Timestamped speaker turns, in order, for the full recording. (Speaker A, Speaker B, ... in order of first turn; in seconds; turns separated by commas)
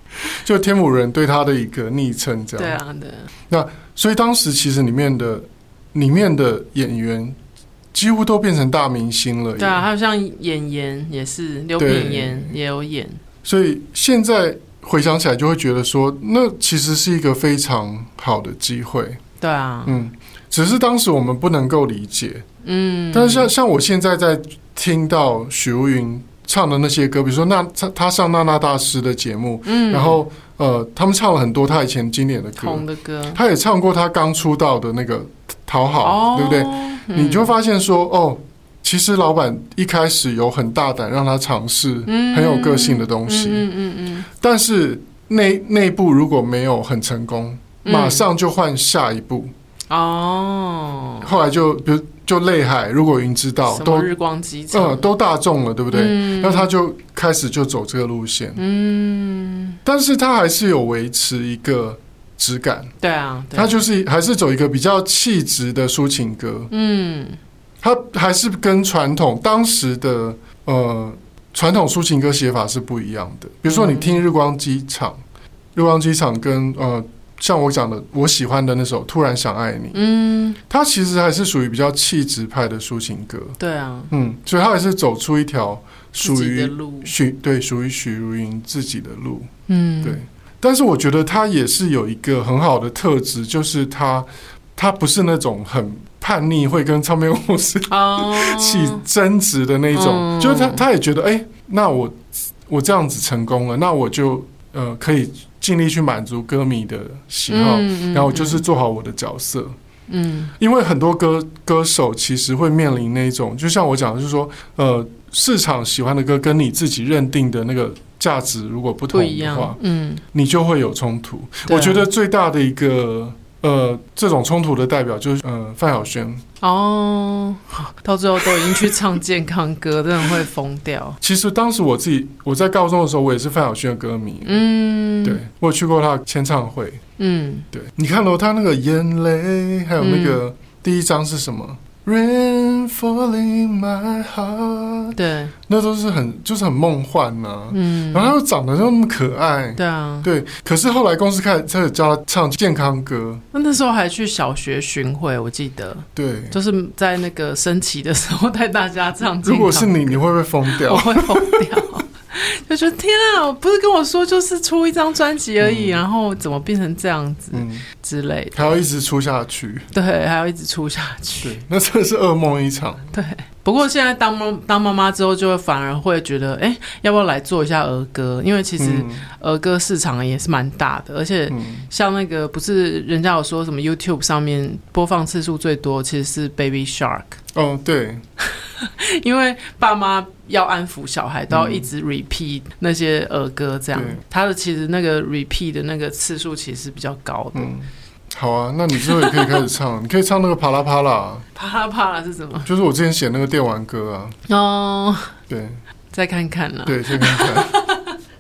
Speaker A: 0.2-2.8, Speaker B: 2.6-3.3, Speaker A: 3.5-7.4, Speaker A: 7.9-9.9, Speaker B: 9.6-13.2, Speaker A: 11.8-12.5, Speaker A: 13.4-19.2, Speaker B: 19.4-20.0, Speaker A: 19.9-22.5, Speaker B: 22.6-23.5, Speaker A: 23.1-43.7, Speaker B: 29.7-30.2, Speaker B: 32.6-33.4, Speaker B: 36.0-37.5, Speaker B: 42.1-44.3, Speaker A: 44.3-49.5, Speaker B: 47.9-48.2, Speaker B: 49.9-51.3, Speaker A: 51.2-54.1, Speaker B: 53.7-55.1, Speaker A: 54.7-58.6, Speaker B: 55.9-56.7, Speaker B: 58.6-59.8, Speaker A: 59.9-62.9, Speaker B: 63.0-63.8, Speaker A: 63.5-66.7, Speaker B: 66.7-67.4, Speaker A: 67.8-75.2, Speaker B: 73.7-74.2, Speaker A: 75.8-80.0, Speaker B: 79.9-80.6, Speaker A: 80.7-83.6, Speaker B: 83.6-84.1, Speaker A: 84.1-89.5, Speaker B: 86.2-87.1, Speaker B: 89.7-90.2, Speaker A: 90.0-109.8, Speaker B: 97.9-99.0, Speaker B: 99.9-100.8, Speaker B: 107.5-108.6, Speaker B: 110.1-110.5, Speaker A: 110.6-119.8, Speaker B: 119.1-120.2, Speaker A: 120.3-126.4, Speaker B: 121.7-122.1, Speaker B: 126.6-131.2, Speaker A: 128.5-128.9, Speaker A: 131.2-134.6, Speaker B: 134.4-135.4, Speaker A: 135.2-137.0, Speaker B: 137.2-137.7, Speaker A: 137.7-153.4, Speaker B: 140.0-140.4, Speaker B: 145.2-145.5, Speaker B: 147.7-148.3, Speaker B: 149.8-150.3, Speaker B: 153.5-168.8, Speaker A: 156.2-156.6, Speaker A: 159.4-161.8, Speaker A: 165.6-166.0, Speaker A: 167.5-167.9, Speaker A: 168.5-169.9, Speaker B: 169.9-171.6, Speaker A: 171.4-173.1, Speaker B: 173.1-187.4, Speaker A: 178.8-179.3, Speaker A: 181.5-181.9, Speaker A: 187.6-188.2, Speaker B: 188.6-197.7, Speaker A: 191.5-191.9, Speaker A: 193.9-194.2, Speaker A: 197.6-201.5, Speaker B: 199.0-199.6, Speaker B: 201.6-202.7, Speaker A: 202.7-204.4, Speaker B: 204.5-205.4, Speaker A: 205.5-205.8, Speaker B: 206.1-208.2, Speaker A: 206.9-207.8